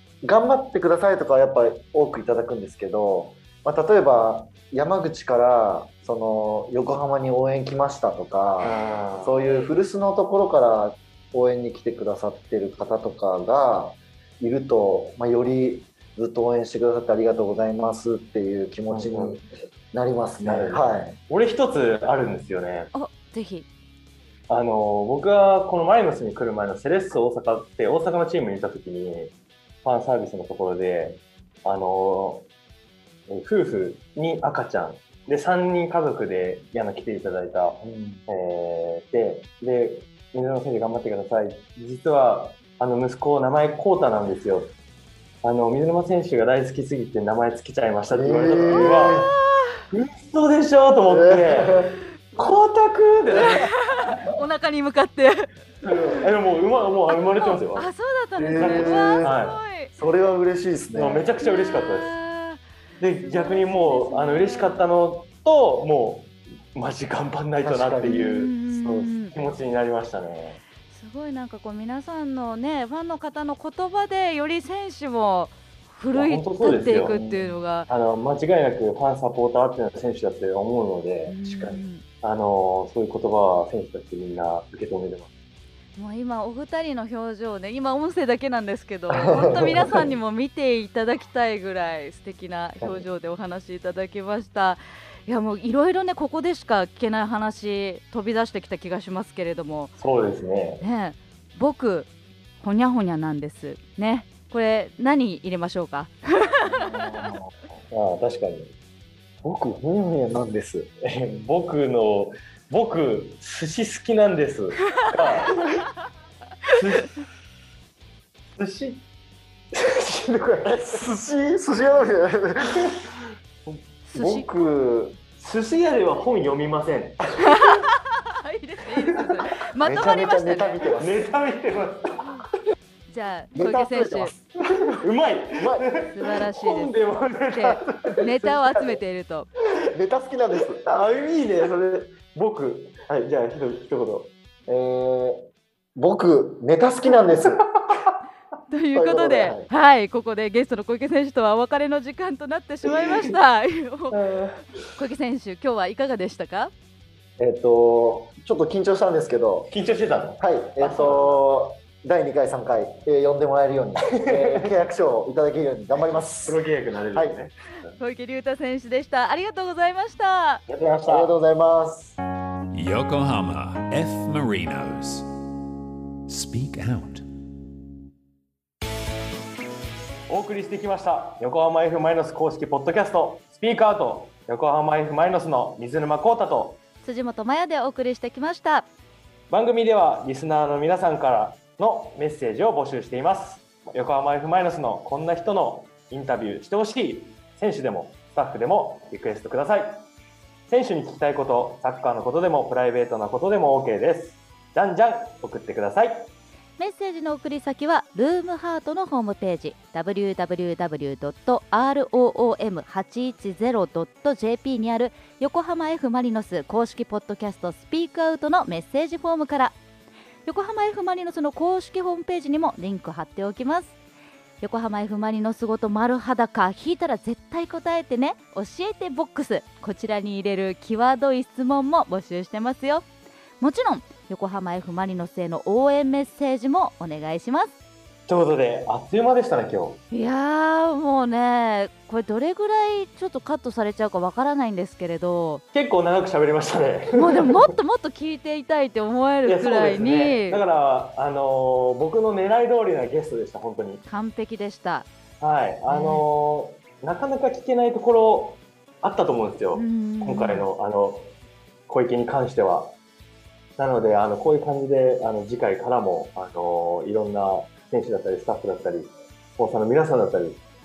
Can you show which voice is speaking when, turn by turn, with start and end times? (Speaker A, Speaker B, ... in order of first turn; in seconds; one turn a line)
Speaker A: 0.2-21.2
Speaker B: 8.6-9.7
Speaker B: 18.9-19.4
Speaker B: 20.4-22.9
Speaker C: 22.9-23.7
Speaker B: 24.5-29.3
Speaker B: 29.9-32.5
Speaker B: 33.3-44.7
Speaker A: 37.8-38.2
Speaker B: 45.4-49.3
Speaker A: 48.1-49.3
Speaker C: 48.7-49.8
Speaker B: 49.9-53.7
Speaker A: 51.1-52.0
Speaker C: 53.4-56.2
Speaker B: 55.8-57.9
Speaker C: 57.1-59.9
Speaker A: 58.4-59.4
Speaker B: 58.5-59.6
Speaker A: 59.9-61.3
Speaker B: 61.0-62.1
Speaker C: 61.4-62.6
Speaker B: 63.0-68.5
Speaker C: 63.2-64.9
Speaker A: 67.6-69.5
Speaker C: 68.1-69.3
Speaker B: 69.3-70.6
Speaker C: 70.9-77.9
Speaker B: 76.1-77.2
Speaker A: 76.6-77.6
Speaker B: 77.9-85.3
Speaker C: 81.3-82.0
Speaker C: 86.0-99.9
Speaker A: 89.1-90.1
Speaker A: 92.8-93.0
Speaker B: 100.0-100.8
Speaker C: 100.8-102.1
Speaker C: 102.6-106.9
Speaker A: 106.6-107.5
Speaker B: 107.9-108.7
Speaker A: 109.4-110.9
Speaker B: 111.0-115.8
Speaker B: 116.7-117.2
Speaker B: 118.5-119.0
Speaker B: 119.7-120.8
Speaker A: 120.6-123.0
Speaker A: 123.7-125.2
Speaker C: 124.1-124.7
Speaker B: 125.4-127.3
Speaker C: 127.4-130.9
Speaker A: 129.8-131.3
Speaker B: 131.0-132.2
Speaker C: 133.1-134.3
Speaker A: 133.6-135.0
Speaker B: 135.0-138.3
Speaker A: 135.6-135.9
Speaker C: 136.0-136.9
Speaker C: 137.5-139.5
Speaker A: 139.9-140.8
Speaker B: 140.7-144.3
Speaker A: 144.7-145.4
Speaker A: 146.0-147.7
Speaker C: 148.7-154.4
Speaker A: 148.9-149.7
Speaker B: 154.1-154.6
Speaker C: 154.9-156.7
Speaker A: 157.4-159.7
Speaker B: 159.7-161.4
Speaker A: 160.4-166.6
Speaker B: 164.0-164.7
Speaker B: 166.0-168.0
Speaker A: 167.1-167.4
Speaker C: 168.0-170.6
Speaker B: 170.7-171.3
Speaker A: 171.1-172.2
Speaker D: 172.7-175.3
Speaker D: 176.3-177.2
Speaker B: 180.3-186.8
Speaker C: 187.0-188.9
Speaker B: 189.5-200.1
Speaker B: 200.7-206.3
Speaker C: 206.8-219.8
Speaker C: 220.5-223.9
Speaker C: 224.6-233.1
Speaker C: 233.6-237.7
Speaker B: 238.3-240.0
Speaker C: 240.1-245.6
Speaker B: 245.7-247.7
Speaker C: 247.2-250.6
Speaker B: 249.5-254.0
Speaker C: 254.1-255.1
Speaker B: 255.4-261.3
Speaker C: 255.9-256.2
Speaker C: 259.8-260.7
Speaker B: 261.9-263.0
Speaker B: 263.8-270.6